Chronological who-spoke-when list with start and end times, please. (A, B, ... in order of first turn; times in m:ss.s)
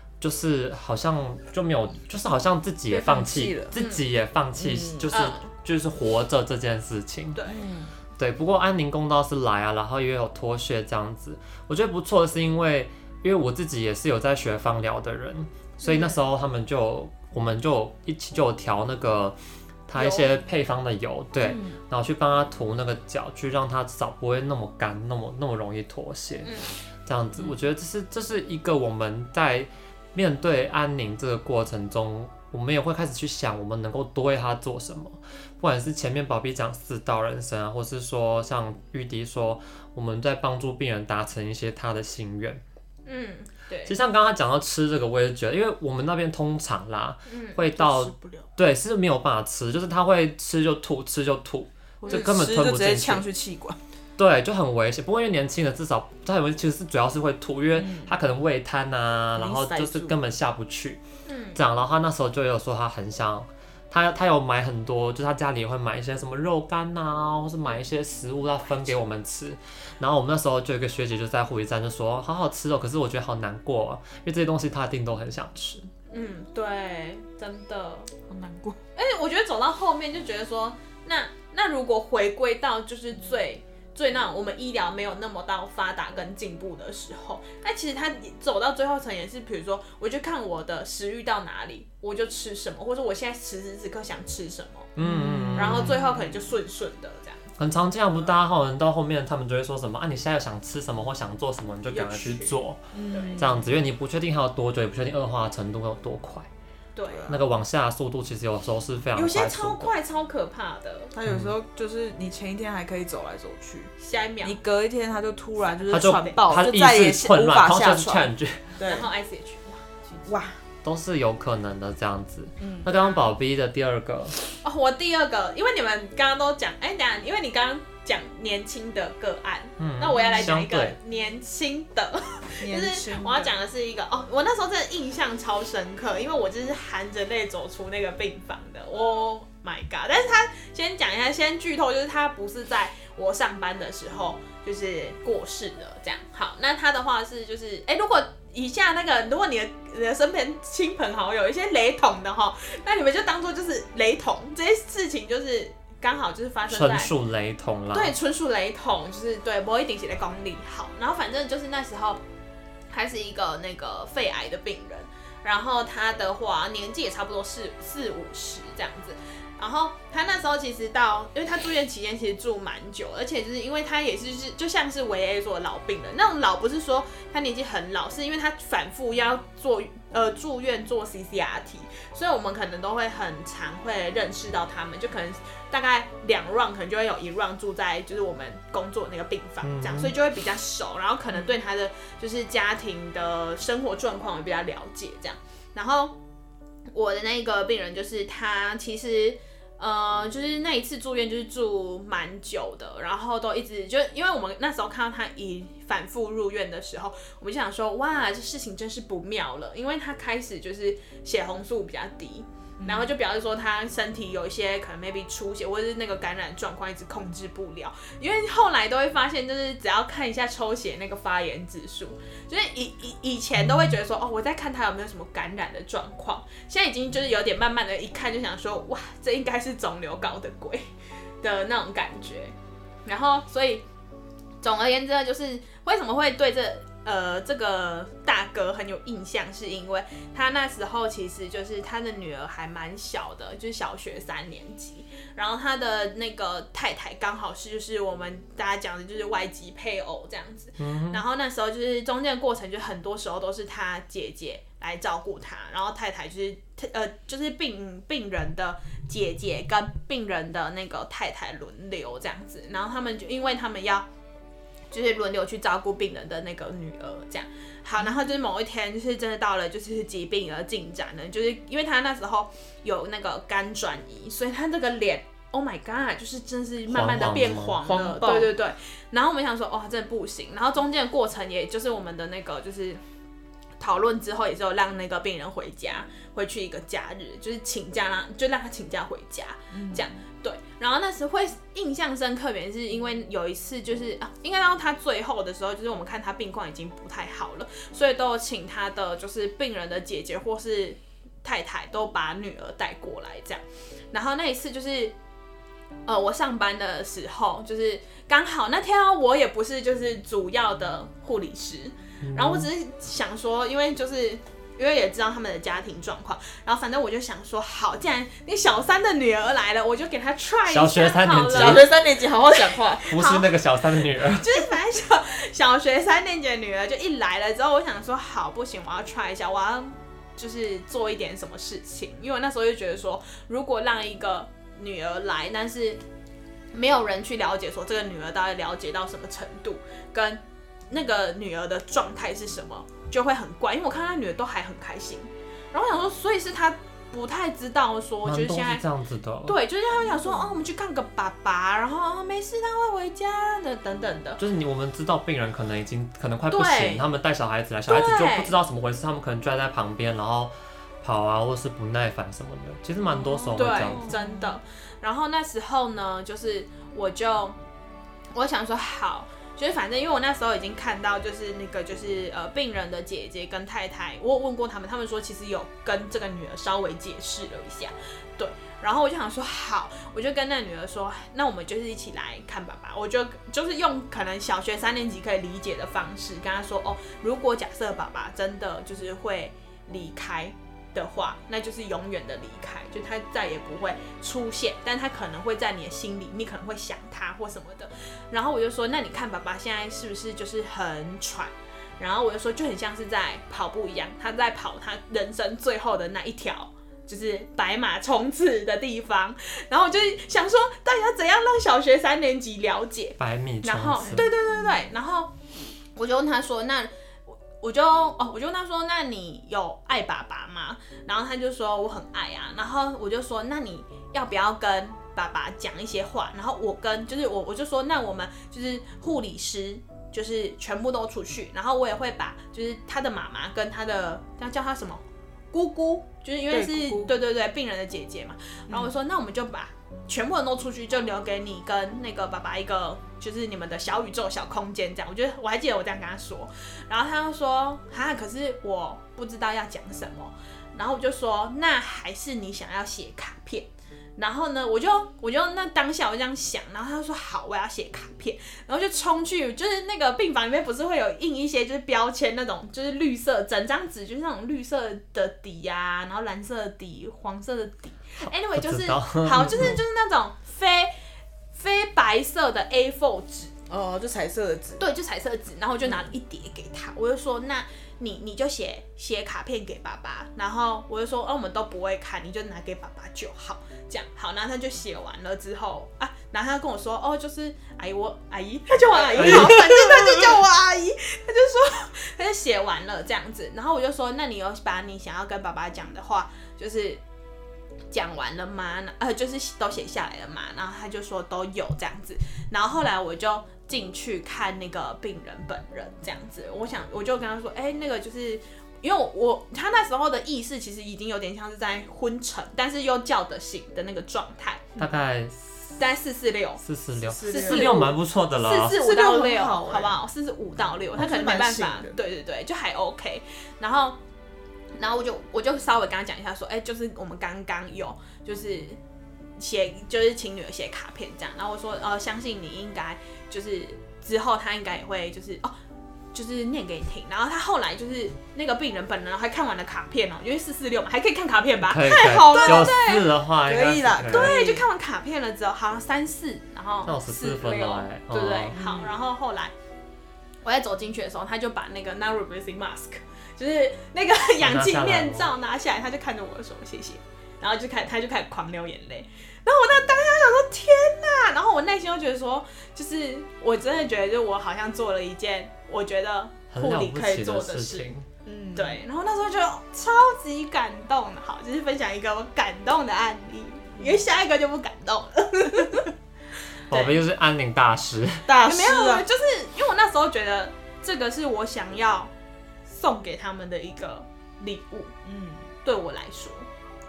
0:00.2-0:07.4 A
0:02.9-0:03.7 B
0:03.8-0:04.0 C
0:04.6-0:05.1 B
0:05.1-0:05.5 C
0:07.3-0:07.6 C
0:07.5-0:07.9 B
0:08.2-0:26.5 A
0:15.8-0:16.1 C
0:19.9-0:20.4 C
0:21.4-0:21.8 B
0:26.4-0:26.8 C
0:27.0-0:42.6 A
0:43.0-0:43.9 C
0:43.8-0:53.2 A
0:47.3-0:47.6 C
0:47.7-0:48.5 B
0:52.0-0:53.8 B
0:54.2-1:01.0 A
0:57.7-0:58.2 B
0:59.4-1:00.2 B
1:01.2-1:01.6 C
1:01.5-1:15.9 A
1:16.1-1:18.1 C
1:18.3-1:18.8 B
1:19.0-1:34.9 C
1:35.0-1:36.0 A
1:35.0-1:36.2 B
1:35.6-1:37.4 C
1:37.6-1:42.8 A
1:41.9-1:42.6 C
1:42.9-1:43.6 B
1:43.1-1:43.4 C
1:43.4-1:46.5 A
1:46.9-1:47.3 C
1:47.0-1:47.4 B
1:47.3-1:49.9 A
1:49.1-1:51.1 C
1:51.1-1:53.9 B
1:51.2-1:51.5 A
1:54.0-1:54.6 C
1:54.4-1:59.1 B
1:55.7-1:56.4 C
1:55.9-1:58.7 A
1:58.8-2:00.4 C
2:00.2-2:00.6 B
2:00.8-2:04.4 A
2:02.6-2:02.9 B
2:02.9-2:03.3 C
2:04.6-2:37.1 C
2:09.8-2:10.9 A
2:10.2-2:10.5 B
2:12.6-2:13.5 B
2:36.7-2:38.2 A
2:37.9-2:42.2 C
2:42.9-3:16.2 C
3:09.6-3:10.1 A
3:16.9-3:50.9 C
3:32.8-3:33.1 B
3:51.4-3:52.5 C
3:53.0-3:53.8 C
3:54.6-4:24.0 C
4:10.8-4:11.2 A
4:24.9-4:43.0 C
4:36.9-4:37.8 A
4:37.8-4:38.5 B
4:43.8-5:05.2 C
4:49.7-4:50.1 B
5:06.0-5:23.5 C
5:12.2-5:12.7 A
5:20.7-5:21.9 A
5:21.5-5:23.2 B
5:23.1-5:24.7 A
5:24.1-5:36.0 C
5:36.7-5:48.8 C
5:48.2-5:49.6 A
5:49.4-5:54.4 C
5:50.0-5:50.5 B
5:54.4-6:04.1 A
5:56.5-5:57.0 C
5:57.9-5:58.5 C
6:03.2-6:04.6 B
6:03.5-6:07.6 C
6:08.3-7:50.9 C
6:53.2-6:54.3 A
6:54.0-6:54.8 B
7:16.5-7:17.2 B
7:48.5-7:49.8 A
7:51.5-7:53.5 C
7:53.7-7:54.8 B
7:54.8-8:17.0 C
8:08.9-8:10.2 B
8:09.2-8:09.6 A
8:17.9-8:34.7 C
8:34.8-8:35.3 A
8:35.7-8:36.6 C
8:36.6-8:38.8 A
8:37.0-8:37.9 B
8:37.2-8:44.0 C
8:38.7-8:40.0 B
8:40.9-8:42.0 B
8:44.8-8:48.8 C
8:49.4-8:55.6 C
8:56.1-9:03.1 C
9:01.6-9:04.4 A
9:02.1-9:02.8 B
9:03.4-9:04.6 B
9:04.1-9:09.5 C
9:06.8-9:08.6 A
9:08.5-9:08.9 B
9:10.4-9:27.9 C
9:14.4-9:15.3 A
9:26.5-9:28.0 A
9:28.2-9:28.8 B
9:28.5-9:35.9 C
9:33.8-9:34.0 B
9:36.7-9:37.0 C
9:36.7-9:38.3 A
9:38.2-9:39.0 B
9:38.4-9:42.1 C
9:42.7-9:44.9 C
9:45.0-9:45.4 B
9:45.6-9:46.5 C